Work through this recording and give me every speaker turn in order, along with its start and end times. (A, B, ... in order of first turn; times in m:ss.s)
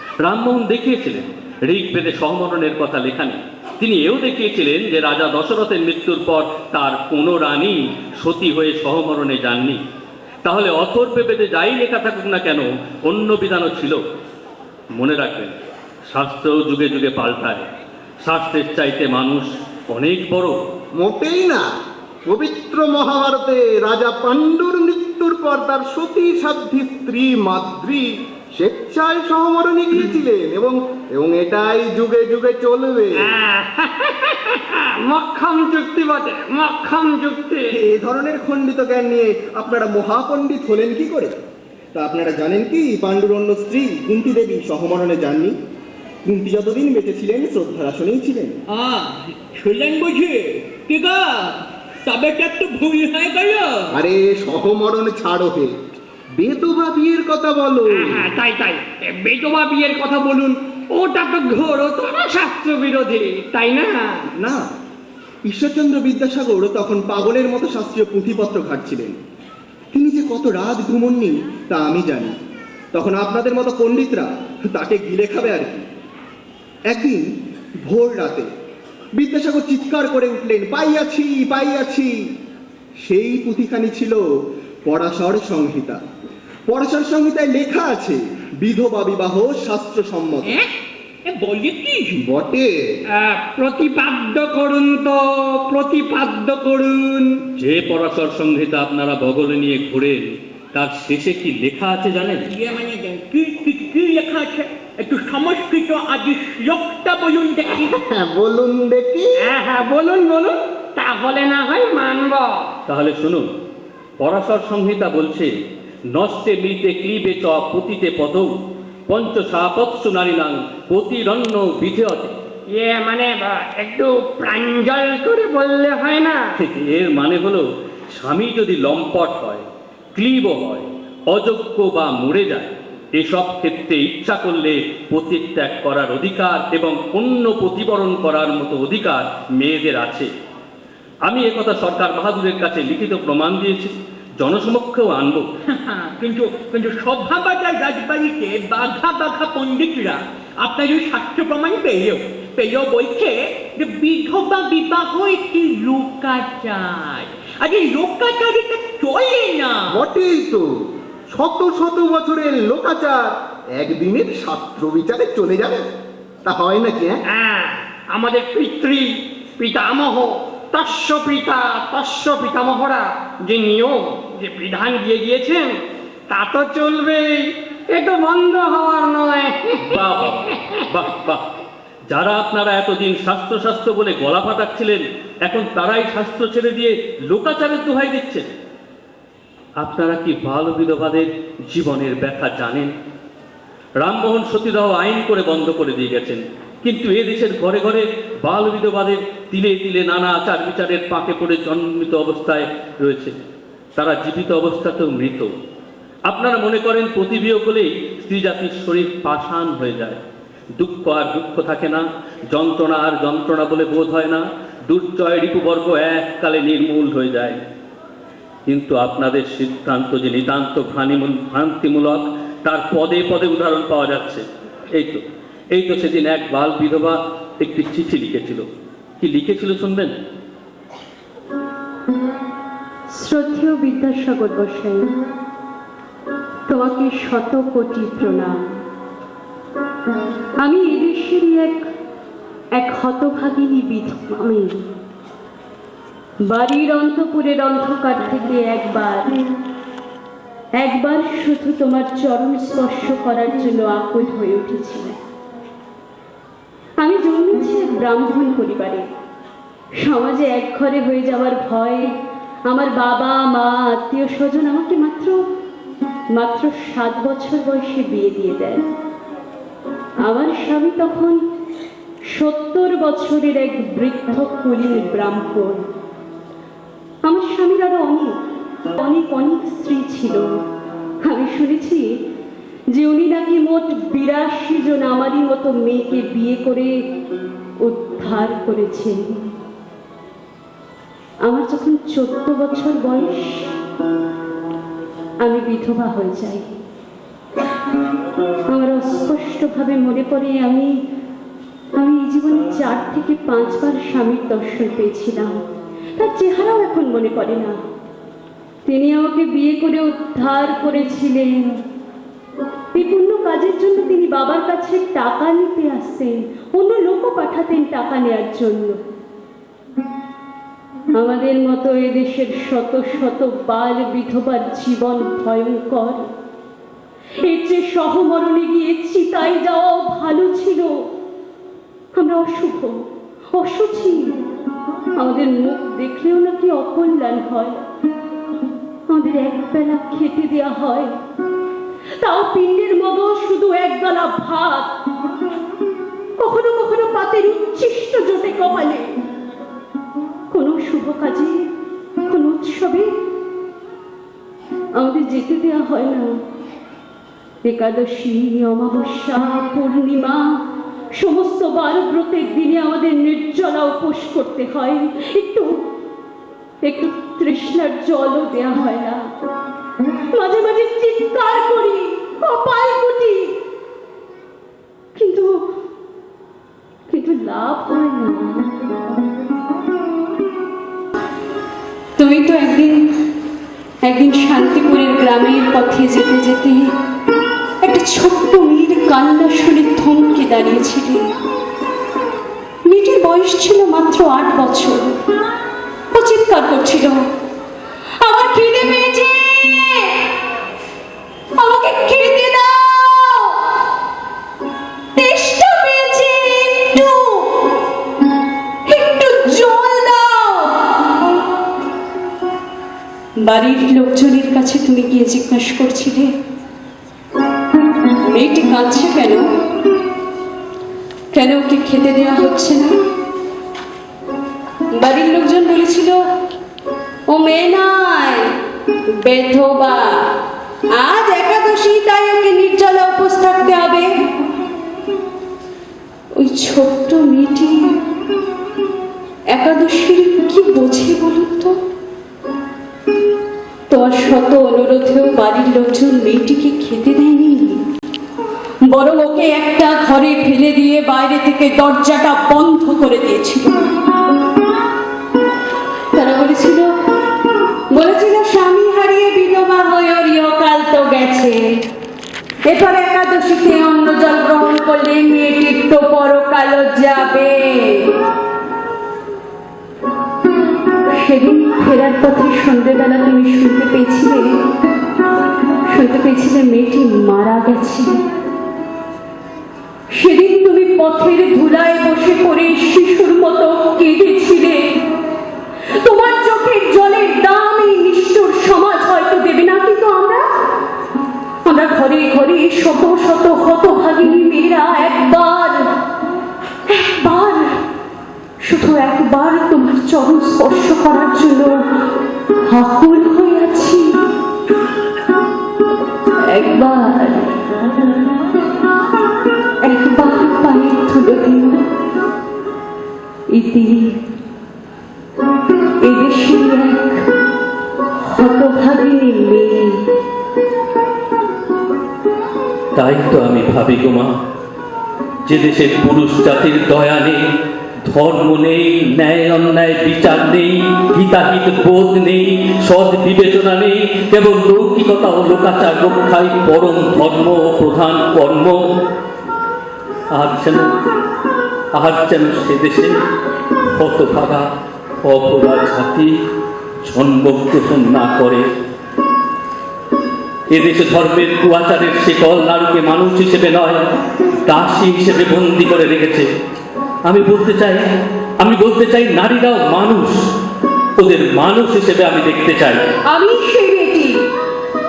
0:00.2-0:09.8 A
0:10.4-0:14.0 A
0:15.0-0:15.6 A
0:16.1-0:17.7 A
0:18.2-0:20.6 A
0:21.0-0:21.7 B
0:22.3-0:33.4 B
0:33.2-0:37.8 C
0:37.7-0:41.4 D
0:41.9-0:45.6 D
0:46.3-0:48.6 D
0:48.7-0:53.9 E
0:54.0-0:55.7 B
0:56.4-0:58.3 B
0:57.9-1:04.3 C
1:04.4-1:04.6 D
1:05.5-1:09.2 D
1:09.9-1:12.4 D
1:12.9-1:15.9 D
1:16.9-1:17.2 D
1:17.9-1:18.5 D
1:19.2-1:22.1 D
1:23.0-1:24.2 D
1:24.9-1:26.0 D
1:26.7-1:30.6 D
1:30.4-1:30.7 E
1:31.3-1:32.2 E
1:32.2-1:32.7 B
1:33.2-1:37.3 C
1:37.6-1:42.5 A
1:42.5-1:48.0 E
1:47.8-1:49.5 B
1:49.4-1:52.7 C
1:52.9-1:53.5 A
1:54.2-1:55.5 A
1:56.1-1:58.5 A
1:59.1-2:02.4 A
2:02.7-2:06.5 C
2:06.6-2:09.6 A
2:10.2-2:20.3 A
2:21.3-2:25.5 A
2:25.7-2:40.0 E
2:39.9-2:40.7 B
2:41.3-2:45.8 B
2:46.4-2:47.2 B
2:47.3-2:55.7 C
2:56.3-3:00.8 C
2:59.8-3:01.4 A
3:02.1-3:08.5 A
3:09.8-3:12.9 A
3:14.0-3:23.3 A
3:24.0-3:25.5 A
3:26.3-3:30.2 A
3:30.8-3:37.6 A
3:38.7-3:45.2 A
3:45.7-3:48.6 A
3:49.2-3:50.1 A
3:53.1-3:55.1 F
3:56.7-3:58.6 F
4:00.6-4:01.8 F
4:02.8-4:04.7 F
4:06.4-4:09.3 F
4:10.8-4:15.2 F
4:17.0-4:19.0 F
4:20.0-4:22.1 F
4:22.7-4:25.4 F
4:26.3-4:28.8 F
4:30.3-4:31.4 F
4:32.3-4:35.8 F
4:37.2-4:38.4 F
4:39.0-4:40.4 F
4:41.2-4:42.0 F
4:42.9-4:46.9 F
4:47.8-4:49.2 F
4:51.5-4:53.7 F
4:55.4-4:56.8 F
4:58.7-5:00.9 F
5:02.0-5:05.6 F
5:06.2-5:07.8 F
5:08.9-5:11.7 F
5:12.9-5:19.0 F
5:21.2-5:26.3 F
5:27.4-5:30.9 F
5:32.2-5:33.0 F
5:33.5-5:34.4 F
5:35.2-5:37.8 F
5:39.1-5:41.1 F
5:42.2-5:44.9 F
5:46.4-5:49.1 F
5:50.5-5:51.6 F
5:52.2-5:53.1 F
5:55.0-5:56.3 F
5:57.6-6:00.4 F
6:01.2-6:05.8 F
6:06.8-6:09.2 F
6:10.4-6:13.5 F
6:15.2-6:15.6 F
6:17.1-6:18.7 F
6:22.2-6:23.0 F
6:24.0-6:26.8 F
6:27.8-6:31.2 F
6:32.9-6:35.2 F
6:36.1-6:37.2 F
6:38.2-6:40.2 F
6:41.6-6:43.6 F
6:45.2-6:47.7 F
6:48.9-6:50.9 F
6:53.5-6:56.3 F
6:58.3-6:59.4 F
7:01.3-7:02.9 F
7:05.0-7:06.2 F
7:07.3-7:08.5 F
7:09.2-7:10.2 F
7:11.0-7:14.1 F
7:16.4-7:17.8 F
7:19.5-7:21.8 F
7:23.9-7:27.8 F
7:28.9-7:33.8 F
7:36.1-7:36.9 F
7:37.9-7:41.6 F
7:42.7-7:48.1 F
7:51.2-7:54.4 F
7:55.9-7:58.2 F
8:00.1-8:04.8 F
8:06.0-8:10.5 F
8:11.7-8:15.8 F
8:16.9-8:17.8 F
8:18.6-8:21.7 F
8:22.7-8:24.1 F
8:26.5-8:27.5 F
8:29.8-8:31.8 F
8:33.5-8:34.1 F
8:36.0-8:37.2 F
8:38.2-8:40.0 F
8:43.0-8:44.4 A
8:45.5-8:47.4 A
8:48.1-8:58.8 A
9:00.3-9:00.9 A
9:02.0-9:03.1 A
9:04.0-9:04.7 A
9:05.3-9:06.4 A
9:07.1-9:08.7 A
9:10.7-9:14.0 A
9:14.6-9:16.5 A
9:17.3-9:18.0 A
9:18.6-9:20.5 A
9:21.2-9:23.0 A
9:23.3-9:24.3 F